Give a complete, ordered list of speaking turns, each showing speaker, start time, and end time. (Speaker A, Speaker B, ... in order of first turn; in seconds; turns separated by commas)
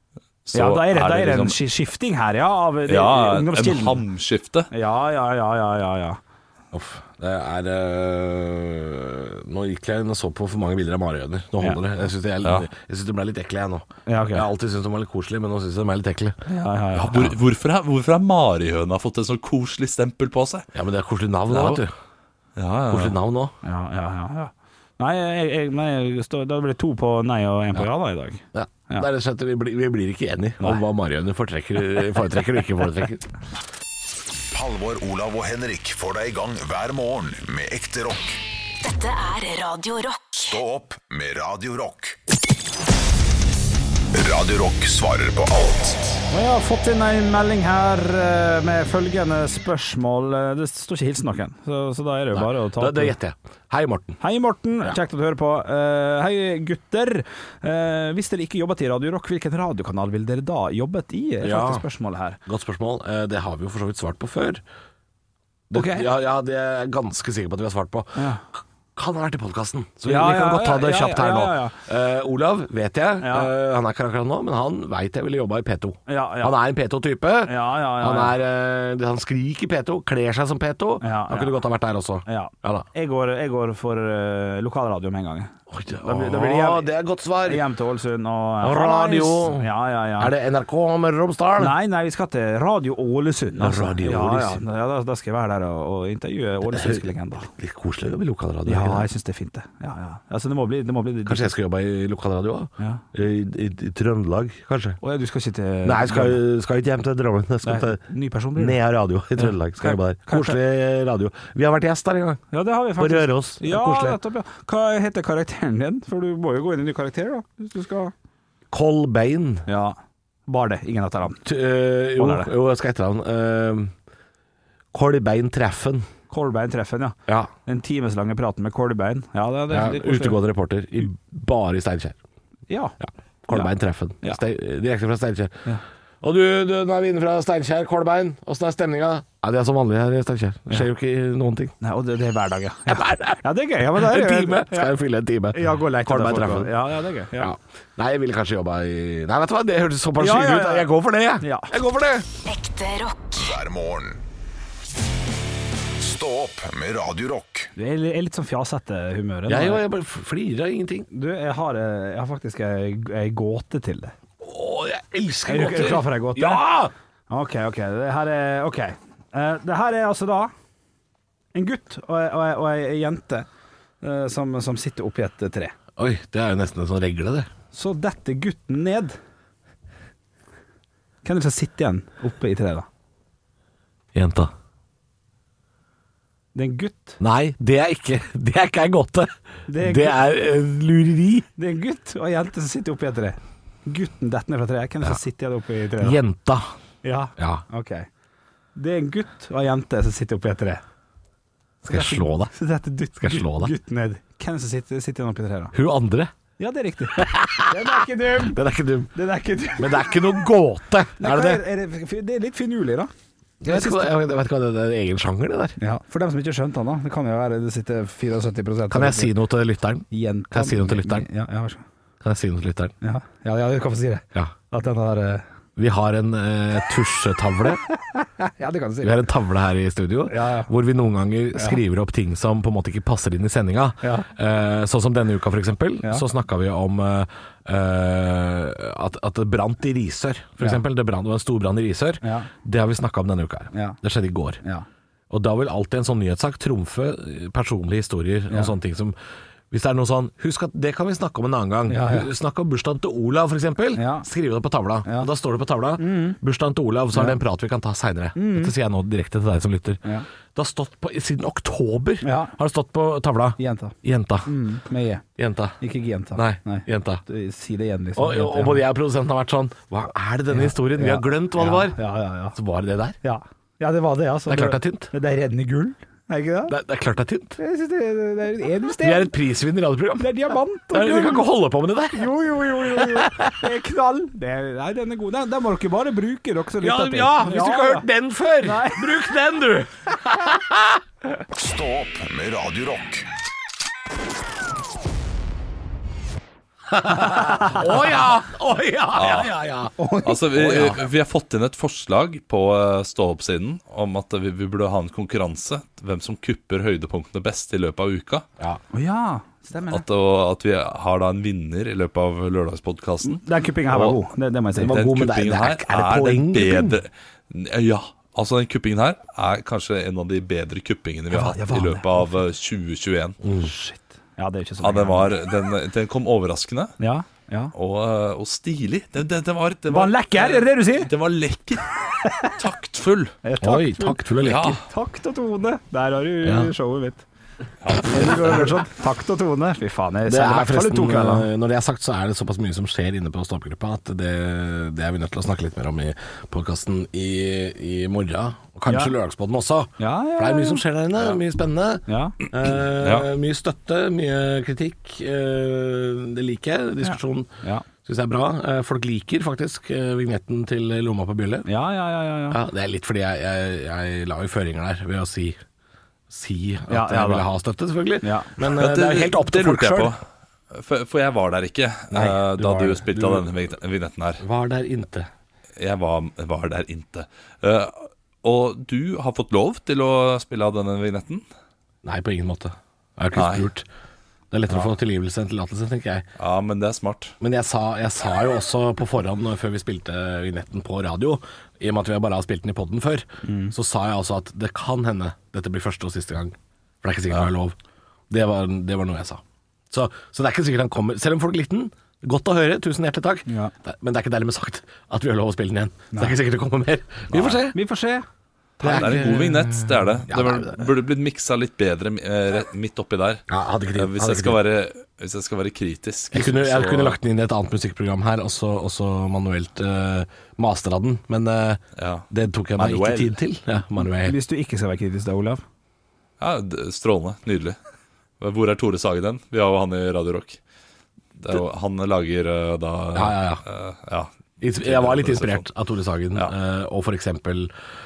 Speaker A: 0.5-1.6, Speaker B: 0.5-4.0, Speaker A: 2.9-4.7, Speaker B: 4.7-6.2, Speaker C: 6.7-16.4, Speaker A: 12.4-12.7, Speaker B: 14.1-14.5, Speaker B: 16.5-17.2, Speaker C: 16.9-17.4, Speaker A: 17.1-20.7, Speaker C: 20.7-21.9, Speaker A: 21.5-21.8, Speaker A: 22.6-23.2, Speaker C: 22.9-23.5, Speaker B: 23.6-29.1, Speaker C: 28.5-33.2, Speaker D: 34.5-38.4, Speaker E: 38.8-40.6, Speaker D: 40.4-42.2, Speaker D: 44.1-46.2, Speaker B: 46.3-53.1, Speaker C: 52.3-54.2, Speaker B: 54.2-62.4, Speaker C: 61.4-61.8, Speaker C: 62.5-64.6, Speaker C: 65.7-68.3, Speaker B: 65.7-66.1, Speaker B: 68.2-68.4, Speaker C: 68.9-82.9, Speaker B: 70.0-71.8, Speaker B: 73.2-73.5, Speaker B: 76.1-76.5, Speaker B: 77.5-78.3, Speaker B: 81.0-81.5, Speaker B: 82.2-86.9, Speaker C: 85.7-87.7, Speaker B: 87.4-90.3, Speaker C: 88.6-91.7, Speaker B: 91.6-97.5, Speaker C: 93.6-94.6, Speaker C: 96.7-99.1, Speaker B: 98.7-101.5, Speaker C: 101.2-105.0, Speaker B: 105.0-106.4, Speaker C: 105.8-108.0, Speaker B: 107.6-108.8, Speaker C: 108.5-112.4, Speaker B: 109.3-110.6, Speaker B: 112.5-118.1, Speaker C: 113.0-114.2, Speaker C: 118.7-119.7, Speaker B: 119.7-120.0, Speaker B: 120.5-121.4, Speaker C: 121.4-123.9, Speaker B: 122.2-122.5, Speaker C: 124.9-126.0, Speaker B: 126.3-130.4, Speaker C: 129.7-132.2, Speaker B: 132.7-133.0, Speaker C: 133.0-135.6, Speaker B: 133.5-134.4, Speaker C: 136.2-141.7, Speaker B: 141.8-144.9, Speaker C: 142.9-152.3, Speaker B: 145.5-147.5, Speaker B: 150.2-151.7, Speaker E: 152.4-153.6, Speaker D: 153.3-154.2, Speaker D: 156.0-157.7, Speaker B: 157.8-159.8, Speaker C: 159.5-161.1, Speaker B: 161.1-164.1, Speaker C: 164.4-166.9, Speaker B: 165.5-166.7, Speaker B: 167.3-170.5, Speaker B: 171.5-173.5, Speaker B: 174.0-175.7, Speaker C: 176.0-177.5, Speaker B: 177.7-179.2, Speaker B: 181.2-182.8, Speaker C: 184.1-184.5, Speaker B: 186.5-187.2, Speaker C: 187.2-191.4, Speaker B: 189.7-190.2, Speaker B: 191.6-196.2, Speaker C: 196.0-196.7, Speaker B: 197.0-198.1, Speaker C: 197.4-197.6, Speaker B: 198.8-200.8, Speaker C: 201.8-202.5, Speaker B: 201.9-205.7, Speaker C: 203.2-203.7, Speaker C: 205.7-206.3, Speaker B: 206.6-208.6, Speaker C: 207.2-209.1, Speaker B: 209.1-210.4, Speaker C: 209.8-211.6, Speaker B: 211.2-213.1, Speaker C: 213.6-215.8, Speaker B: 213.6-214.1, Speaker B: 215.8-219.3, Speaker C: 218.9-221.3, Speaker B: 220.1-221.8, Speaker C: 222.2-222.9, Speaker B: 223.0-225.4, Speaker C: 225.8-227.8, Speaker B: 227.9-229.1, Speaker C: 229.0-244.6, Speaker B: 230.3-230.7, Speaker B: 234.0-234.3, Speaker B: 242.2-242.5, Speaker B: 243.7-244.0, Speaker C: 245.3-249.1, Speaker C: 249.7-260.0, Speaker B: 251.9-252.3, Speaker B: 253.9-254.3, Speaker B: 255.0-255.3, Speaker B: 256.0-256.4, Speaker B: 257.1-257.4, Speaker B: 258.3-258.7, Speaker C: 260.5-264.5, Speaker B: 262.2-262.5, Speaker B: 263.6-263.9, Speaker B: 264.4-265.2, Speaker C: 265.4-265.8, Speaker B: 265.8-268.8, Speaker C: 266.3-267.2, Speaker C: 268.1-272.0, Speaker B: 270.5-272.6, Speaker C: 272.5-273.1, Speaker B: 273.2-276.7, Speaker C: 274.5-275.1, Speaker C: 276.7-277.6, Speaker B: 277.6-279.3, Speaker C: 279.0-280.3, Speaker B: 280.2-281.4, Speaker C: 280.9-283.7, Speaker B: 282.1-288.1, Speaker C: 286.8-291.0, Speaker B: 288.6-289.1, Speaker D: 291.6-293.2, Speaker C: 296.9-299.9, Speaker A: 299.1-299.5, Speaker B: 300.0-300.4, Speaker A: 300.2-308.4, Speaker C: 300.5-301.0, Speaker B: 308.9-310.0, Speaker A: 309.9-314.2, Speaker B: 313.2-315.0, Speaker C: 314.8-317.0, Speaker A: 314.8-323.4, Speaker B: 321.3-322.3, Speaker C: 323.4-323.7, Speaker B: 323.6-325.3, Speaker A: 324.8-326.9, Speaker B: 327.0-327.7, Speaker A: 327.7-333.3, Speaker B: 329.9-331.1, Speaker B: 332.2-332.5, Speaker B: 333.4-334.2, Speaker C: 333.6-334.8, Speaker A: 334.4-334.8, Speaker B: 334.9-337.2, Speaker C: 336.4-336.7, Speaker A: 337.8-338.6, Speaker B: 338.0-341.5, Speaker C: 340.3-357.5, Speaker B: 348.9-349.1, Speaker B: 350.0-350.8, Speaker B: 352.1-352.4, Speaker A: 353.0-353.3, Speaker B: 357.0-357.9, Speaker C: 358.0-361.7, Speaker B: 361.6-362.6, Speaker C: 362.5-365.6, Speaker C: 366.3-370.1, Speaker B: 366.9-367.4, Speaker B: 368.2-368.5, Speaker A: 368.8-374.4, Speaker C: 372.1-373.5, Speaker C: 374.4-375.3, Speaker A: 375.8-381.4, Speaker C: 382.0-383.9, Speaker A: 383.3-383.7, Speaker C: 384.5-386.2, Speaker A: 386.4-387.3, Speaker C: 387.4-397.7, Speaker B: 393.4-393.7, Speaker C: 398.3-407.8, Speaker B: 403.5-403.7, Speaker B: 407.7-408.2, Speaker A: 408.8-417.2, Speaker C: 408.8-410.9, Speaker C: 413.5-414.6, Speaker C: 416.3-424.4, Speaker A: 422.0-422.2, Speaker A: 422.8-423.4, Speaker B: 424.2-425.6, Speaker A: 426.4-427.8, Speaker A: 428.4-430.6, Speaker A: 431.4-434.3, Speaker C: 433.1-433.6, Speaker C: 434.6-437.7, Speaker A: 434.8-435.6